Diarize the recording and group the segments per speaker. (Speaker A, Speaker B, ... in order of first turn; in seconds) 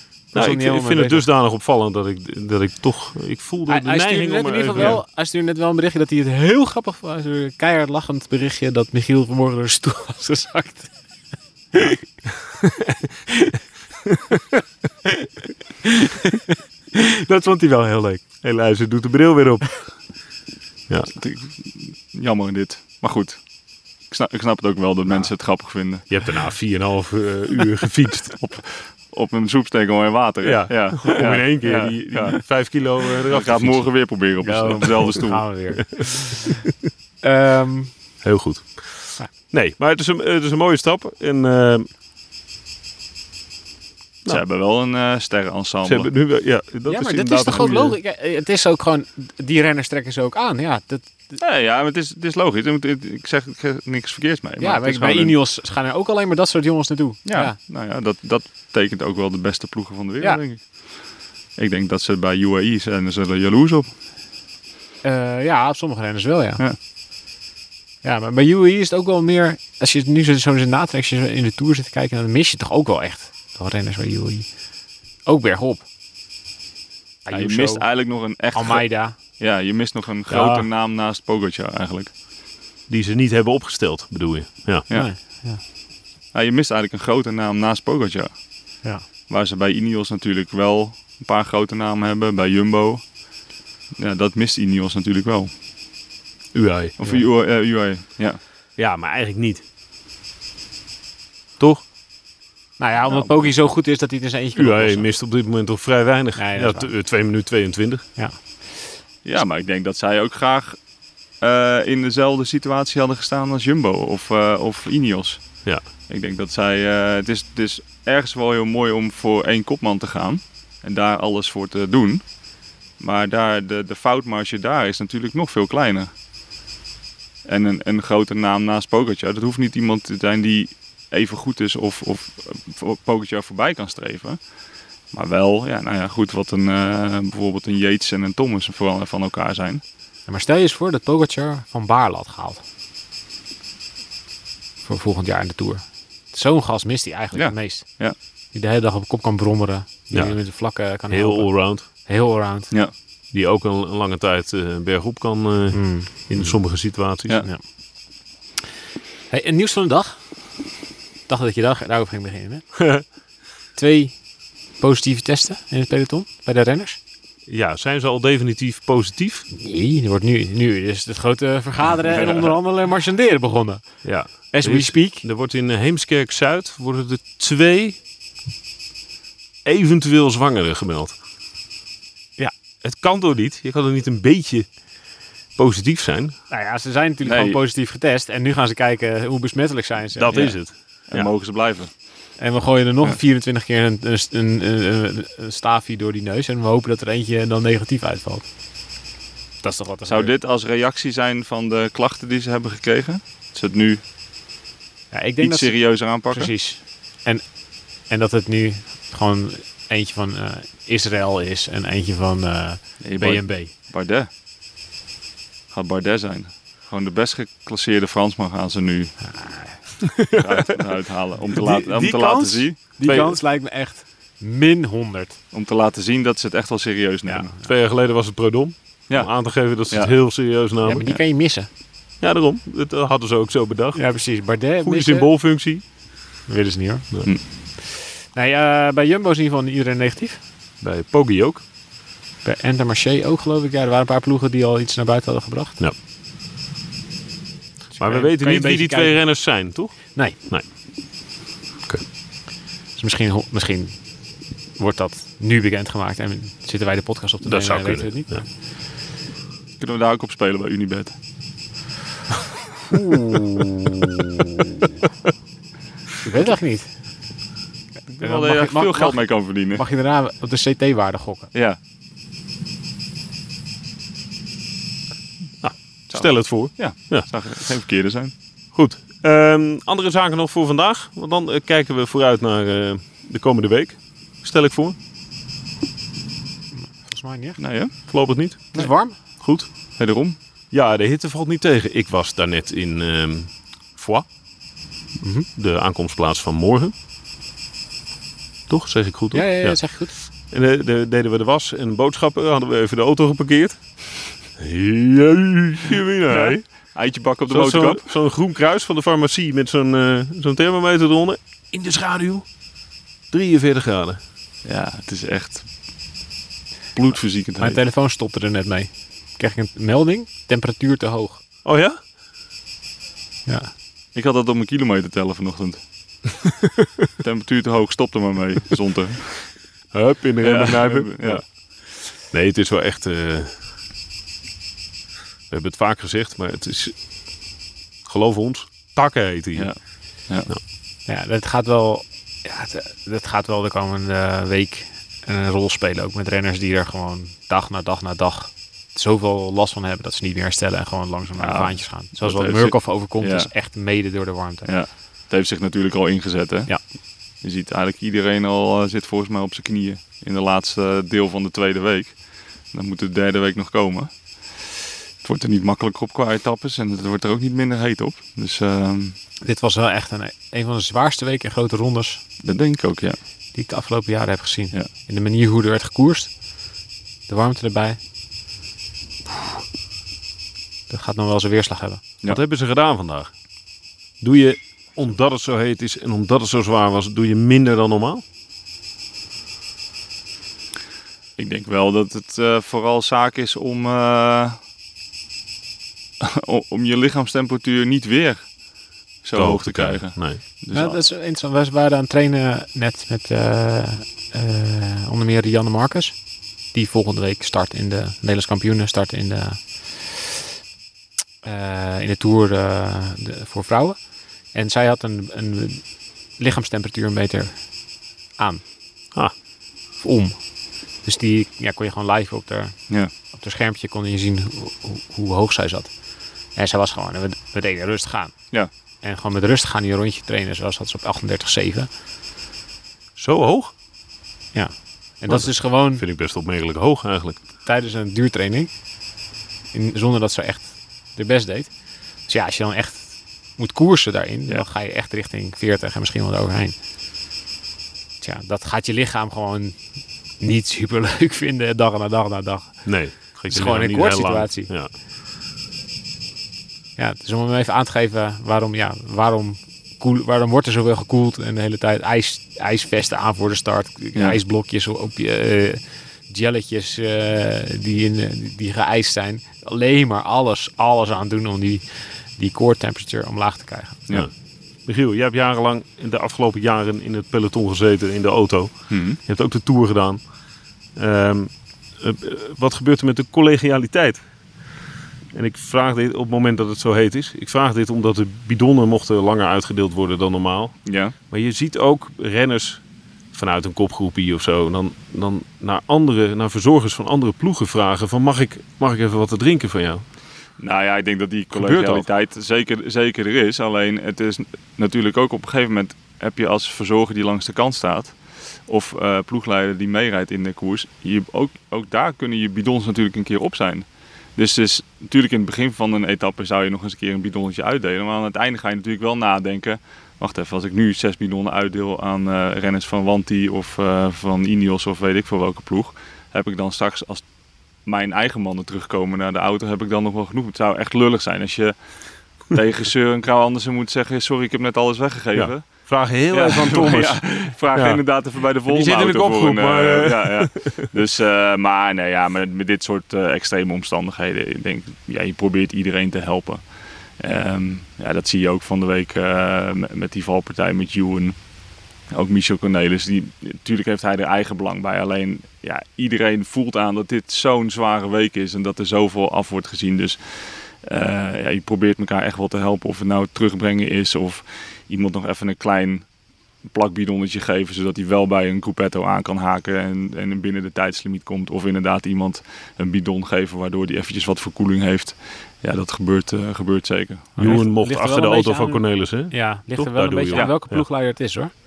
Speaker A: 0.3-1.3, 3.7-10.9, 11.7-12.1, 15.8-16.4, 16.9-18.2, 34.4-36.5, 37.2-37.9, 46.9-51.4, 54.6-57.6, 65.0-66.6, 68.0-74.5, 75.2-75.8, 77.3-79.2, 80.3-80.6, 84.9-85.6, 102.8-105.1, 106.4-106.9, 140.3-142.6, 144.8-152.7, 155.7-156.9, 159.3-160.7, 161.3-163.1, 163.8-167.0, 169.5-175.2, 186.5-190.6, 192.4-198.5, 199.6-200.3, 205.1-213.7, 219.2-220.0, 222.0-225.4, 227.2-227.7, 230.8-231.7, 233.9-235.3, 236.5-240.4, 242.4-245.8, 247.9-249.4, 252.9-258.4, 263.1-263.7, 266.2-266.9, 268.2-271.5, 286.7-288.1, 288.7-289.2, 295.2-295.5, 299.3-300.1, 317.6-321.4, 323.5-323.7, 341.1-354.7, 369.4-372.2, 373.5-376.4, 377.3-378.0, 380.9-382.0, 400.7-410.3, 411.4-417.9, 418.4-418.6, 420.0-425.9, 426.5-428.4, 429.0-431.9, 434.5-436.0, 437.6-438.8, 439.7-446.8, 448.2-454.7, 457.0-474.0, 577.4-581.5
Speaker B: 0.3-5.0, 18.4-19.9, 26.1-28.4, 30.4-34.0, 38.2-41.9, 45.9-48.0, 82.9-84.9, 96.5-97.0, 98.8-99.6, 104.6-108.1, 150.1-151.9, 153.3-157.4, 167.5-169.5, 174.0-178.0, 179.7-181.2, 182.4-184.7, 185.6-186.4, 190.2-191.3, 221.6-223.3, 227.6-231.1, 232.2-235.8, 240.8-241.6, 248.0-250.7, 257.4-258.4, 275.6-277.3, 278.7-284.9, 288.1-289.7, 290.7-294.3, 295.6-296.9, 298.7-304.0, 304.6-306.6, 307.5-312.5, 313.3-314.2, 321.6-322.0, 329.9-331.7, 332.3-333.5, 335.5-337.0, 338.1-339.9, 382.3-383.3, 384.2-388.2, 399.4-400.4, 433.2-433.7, 435.3-437.4, 452.9-454.9, 474.9-480.2, 481.0-484.2, 485.3-490.8, 491.3-492.8, 493.3-500.0, 501.5-502.1, 535.4-538.0, 538.7-540.8, 577.4-580.9
Speaker C: 21.1-23.4, 24.1-26.1, 28.4-32.4, 33.3-35.5, 44.3-46.1, 51.4-55.3, 57.3-63.9, 77.3-82.1, 86.3-93.2, 94.0-95.5, 97.0-98.4, 103.0-103.5, 109.2-110.8, 111.3-126.1, 127.5-134.4, 135.1-139.8, 147.3-148.2, 172.1-172.5, 187.2-187.6, 190.3-190.6, 191.1-191.9, 200.1-204.0, 205.4-206.5, 213.0-214.3, 215.7-219.3, 220.3-223.3, 225.5-227.5, 229.1-230.1, 259.8-261.1, 268.1-269.8, 271.5-271.8, 276.1-278.3, 287.6-287.9, 290.0-290.4, 306.3-308.1, 314.6-315.7, 316.9-317.8, 324.1-326.3, 327.2-329.6, 330.4-331.4, 339.6-340.5, 351.4-353.5, 354.6-369.2, 372.4-373.2, 391.4-394.6, 396.2-398.6, 399.2-401.0, 478.9-479.2, 490.9-491.1, 500.6-527.2, 527.9-531.8, 532.3-546.7, 547.2-551.4, 552.1-566.1, 566.6-577.6